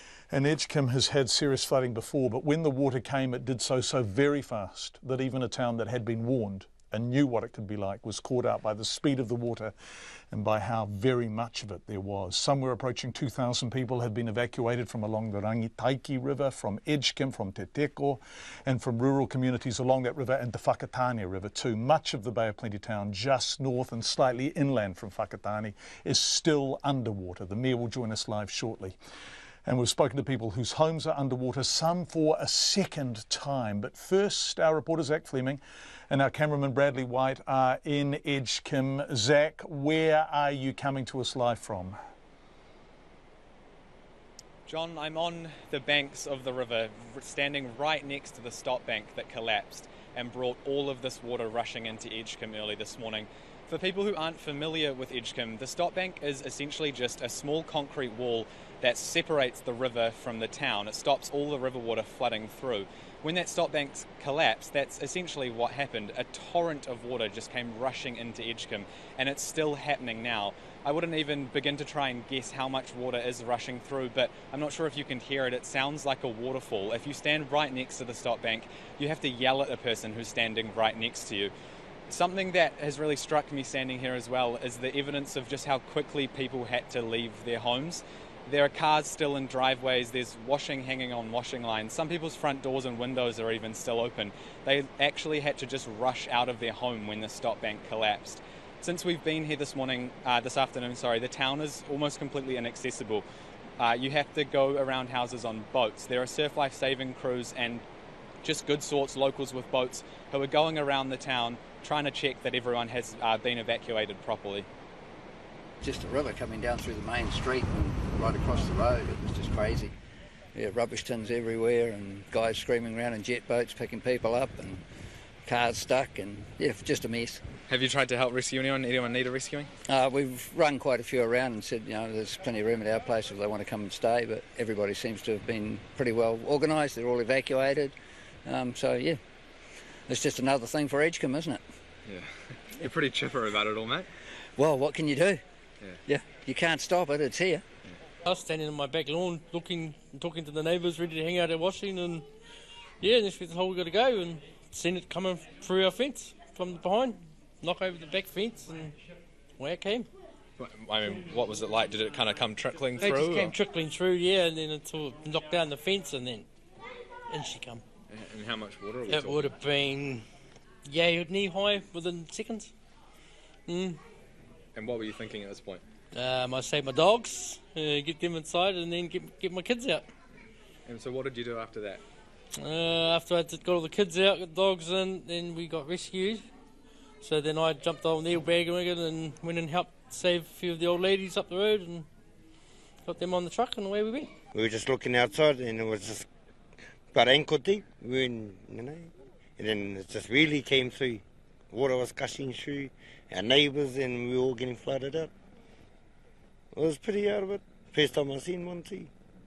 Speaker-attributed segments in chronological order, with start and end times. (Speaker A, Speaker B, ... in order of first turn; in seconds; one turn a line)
Speaker A: 0.3-9.7
Speaker A: 10.3-29.0
Speaker A: 29.7-42.0
Speaker B: 44.7-81.5
Speaker B: 82.1-103.2
Speaker B: 103.8-107.8
Speaker B: 108.4-114.7
Speaker C: 115.8-119.9
Speaker C: 120.5-124.8
Speaker C: 125.5-127.4
Speaker B: 127.7-129.7
Speaker C: 129.9-137.9
Speaker C: 138.4-139.2
Speaker C: 140.1-141.6
Speaker B: 142.1-144.1
Speaker C: 144.6-145.4
Speaker C: 146.1-147.6
Speaker D: 148.2-152.3
Speaker D: 153.0-158.9
Speaker D: 159.6-160.1
Speaker B: 160.6-163.5
Speaker D: 163.0-166.5
Speaker D: 167.3-167.8
Speaker B: 168.1-169.4
Speaker D: 169.1-170.2
Speaker D: 170.9-172.7
Speaker D: 173.7-174.0
Speaker B: 174.8-175.8
Speaker D: 176.1-180.1
Speaker B: 180.9-182.0
Speaker D: 182.6-186.4
Speaker D: 187.2-192.1
Speaker D: 193.1-194.3
Speaker E: 194.6-196.3
Speaker E: 197.1-205.3
Speaker E: 206.7-209.1